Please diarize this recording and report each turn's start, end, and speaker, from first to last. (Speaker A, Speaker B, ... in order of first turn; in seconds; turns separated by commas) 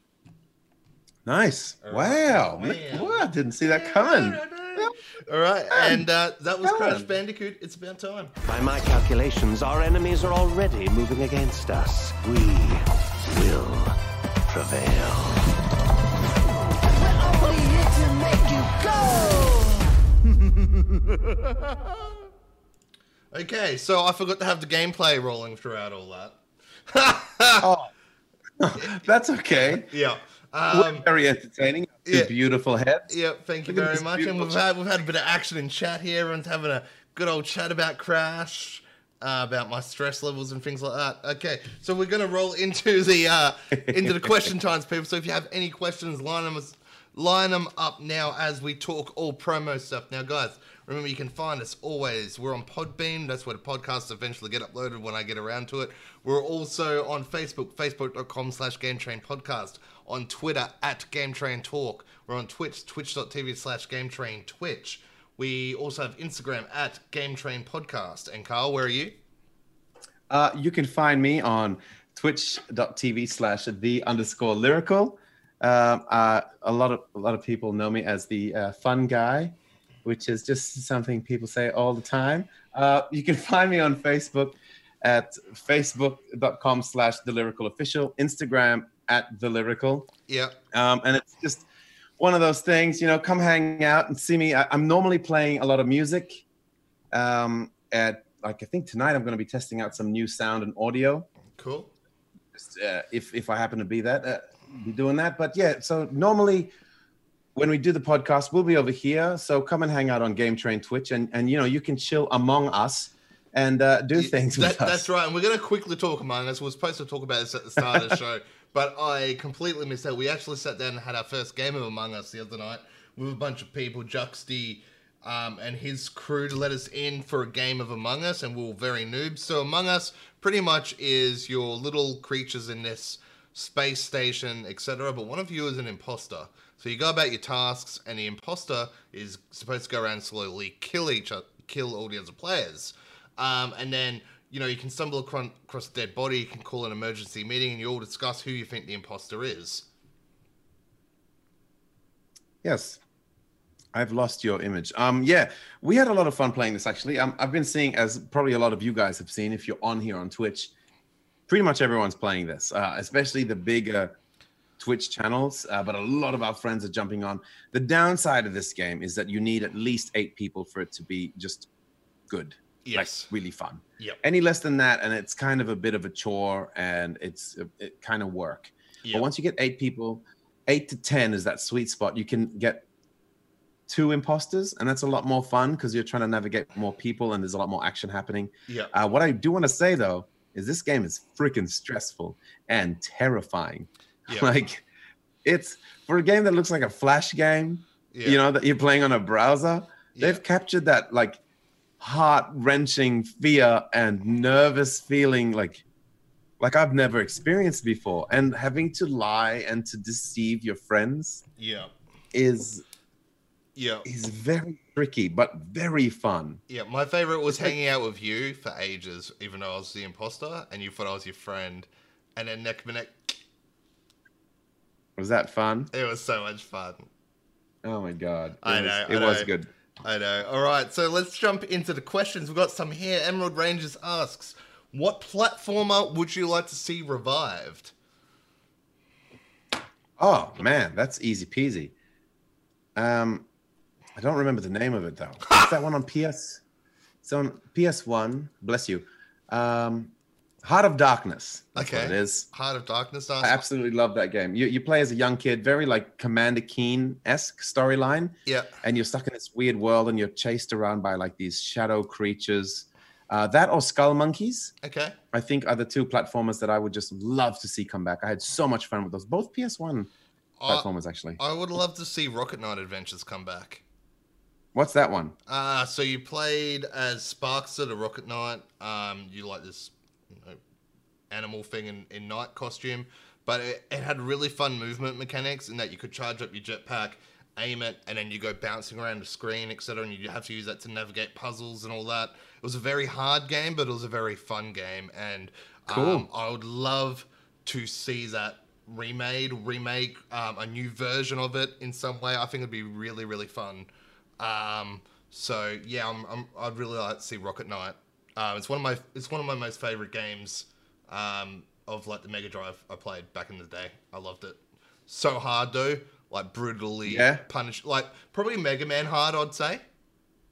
Speaker A: 1.3-4.9, Speaker B: 1.8-8.3, Speaker A: 5.7-6.1, Speaker A: 6.6-7.1, Speaker C: 8.4-14.0, Speaker C: 14.5-15.5, Speaker C: 16.9-19.9, Speaker B: 23.3-27.7, Speaker A: 27.6-27.9, Speaker A: 28.6-29.9, Speaker B: 29.5-31.1, Speaker A: 30.7-33.1, Speaker B: 32.1-32.3, Speaker B: 33.1-69.2, Speaker A: 33.7-34.6, Speaker A: 43.9-44.5, Speaker A: 70.3-90.1, Speaker B: 90.3-90.6, Speaker A: 90.7-91.7, Speaker A: 92.2-96.4, Speaker A: 97.1-101.3, Speaker B: 101.6-101.9, Speaker A: 102.5-106.7, Speaker A: 107.5-115.1, Speaker B: 114.2-149.9, Speaker A: 117.8-118.0, Speaker A: 152.6-153.0, Speaker A: 153.9-160.7, Speaker A: 161.5-164.2, Speaker A: 164.8-171.7, Speaker A: 172.3-182.9, Speaker B: 172.8-173.3, Speaker A: 183.9-194.8, Speaker A: 195.4-201.4, Speaker B: 198.1-198.4, Speaker B: 200.1-200.4, Speaker A: 202.0-205.8, Speaker A: 206.6-211.4, Speaker B: 211.6-211.9, Speaker A: 212.3-212.8, Speaker B: 213.8-214.1, Speaker A: 214.0-216.6, Speaker B: 216.7-223.4, Speaker A: 217.5-217.8, Speaker A: 225.2-225.9, Speaker B: 225.9-227.1, Speaker A: 227.8-229.7, Speaker B: 228.6-229.5, Speaker B: 230.0-237.9, Speaker A: 240.2-241.9, Speaker A: 243.0-243.5, Speaker A: 244.2-246.6, Speaker A: 247.2-252.5, Speaker B: 251.8-253.6, Speaker A: 253.4-264.7, Speaker B: 258.5-258.7, Speaker B: 264.8-265.2, Speaker A: 265.3-270.1, Speaker B: 270.6-273.8, Speaker A: 270.7-271.4, Speaker A: 274.7-275.4, Speaker B: 275.5-280.6, Speaker B: 281.3-303.9, Speaker A: 295.9-296.3, Speaker B: 304.4-319.8, Speaker A: 317.1-317.4